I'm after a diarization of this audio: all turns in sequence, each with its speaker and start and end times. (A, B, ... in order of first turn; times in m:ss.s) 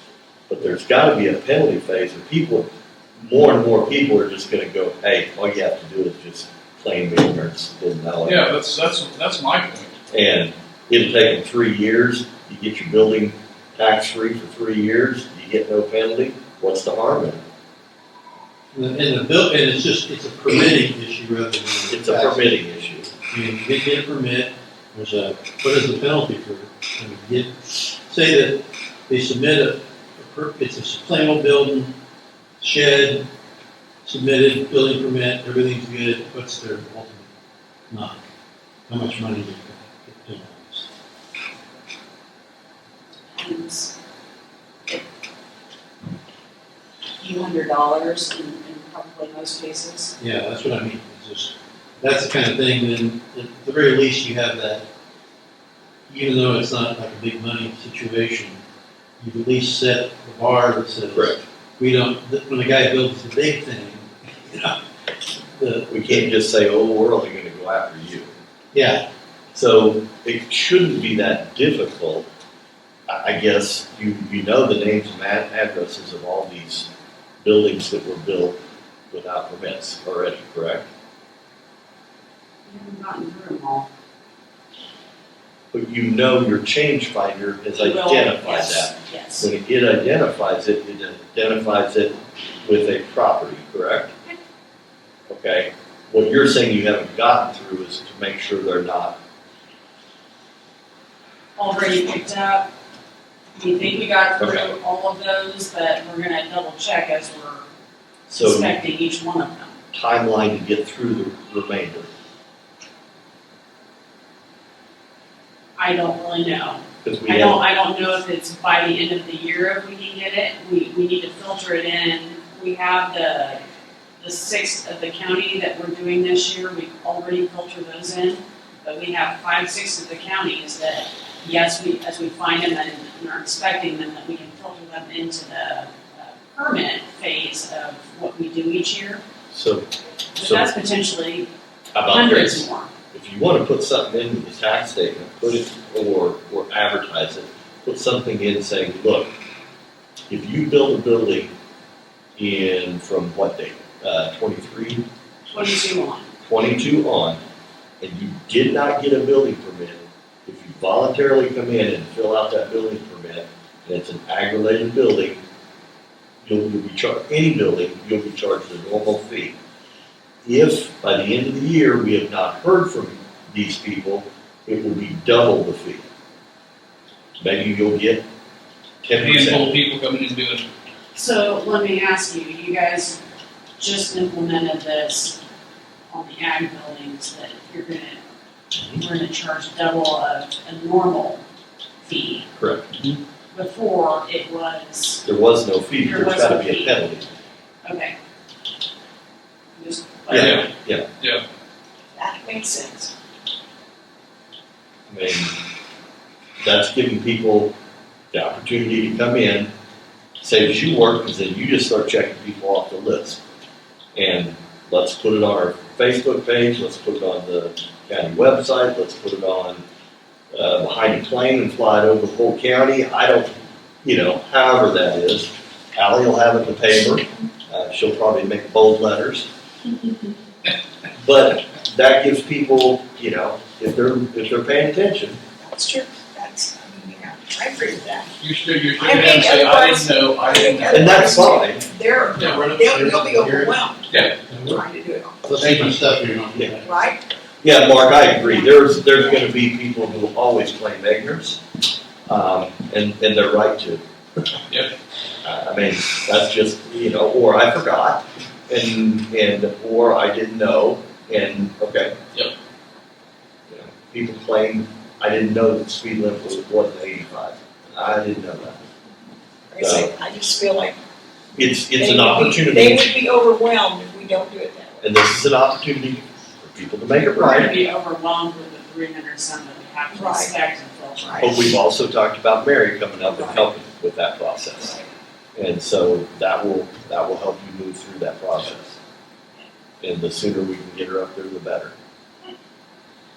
0:00.5-0:02.7 A
0:03.2-0:08.5 A
0:08.2-0:10.0 B
0:10.1-0:17.4 A
0:18.7-0:22.5 C
0:21.9-0:23.1 A
0:23.3-0:31.9 C
0:32.6-0:33.2 C
0:34.0-0:37.3 C
0:37.9-0:38.2 C
0:38.9-0:40.9 C
0:43.3-0:43.9 D
0:47.2-0:50.1 D
0:50.2-0:54.8 C
0:56.1-0:58.6 C
0:59.2-1:06.3 C
1:05.9-1:08.3 A
1:08.7-1:09.0 C
1:09.5-1:12.3 A
1:13.1-1:16.9 A
1:17.4-1:18.6 A
1:19.1-1:20.9 A
1:22.6-1:23.9 D
1:25.7-1:34.1 A
1:27.8-1:29.5 D
1:35.3-1:39.2 A
1:41.6-1:42.7 D
1:43.6-1:47.7 D
1:44.4-1:44.7 A
1:48.3-1:49.7 D
1:48.3-1:48.7 A
1:49.9-1:52.1 A
1:55.8-2:03.6 D
1:57.0-1:57.6 A
2:04.2-2:19.2 D
2:19.5-2:19.9 A
2:20.4-2:21.5 D
2:20.4-2:20.7 A
2:21.9-2:29.3 A
2:22.1-2:22.9 D
2:30.3-2:31.5 A
2:32.4-2:35.0 A
2:35.5-2:36.3 D
2:36.4-2:37.4 A
2:38.0-2:45.4 A
2:46.4-2:49.5 A
2:50.4-2:56.1 A
2:57.4-2:58.2 A
2:59.0-2:59.8 A
2:59.2-3:00.7 B
3:01.1-3:03.2 D
3:03.8-3:05.4 D
3:06.1-3:08.2 D
3:08.8-3:09.0 A
3:09.0-3:11.4 D
3:12.0-3:12.5 D
3:12.6-3:12.9 A
3:13.5-3:15.2 D
3:15.2-3:17.3 A
3:16.0-3:16.9 D
3:17.8-3:18.1 D
3:19.8-3:20.7 D
3:20.3-3:21.1 A
3:20.3-3:20.7 B
3:22.1-3:23.1 E
3:25.1-3:25.6 A
3:26.6-3:27.7 A
3:28.3-3:29.7 A
3:30.4-3:33.4 A
3:34.1-3:39.8 A
3:40.5-3:43.5 A
3:44.0-3:49.5 A
3:51.2-3:55.4 A
3:55.6-3:58.3 E
3:58.4-4:01.4 B
3:59.0-4:05.4 E
4:00.9-4:01.8 A
4:02.3-4:02.7 B
4:02.4-4:03.8 C
4:04.1-4:04.4 B
4:04.3-4:04.8 C
4:05.4-4:06.9 C
4:05.6-4:05.9 B
4:06.8-4:07.2 E
4:07.6-4:11.6 A
4:12.3-4:14.0 A
4:15.4-4:22.1 A
4:23.7-4:28.9 A
4:29.7-4:31.0 E
4:29.8-4:30.1 A
4:31.5-4:33.1 A
4:32.0-4:35.0 E
4:35.0-4:37.8 A
4:37.3-4:41.6 D
4:40.1-4:40.5 E
4:41.2-4:41.5 E
4:41.4-4:45.0 A
4:43.3-4:43.6 E
4:45.6-4:49.0 A
4:50.0-4:51.9 A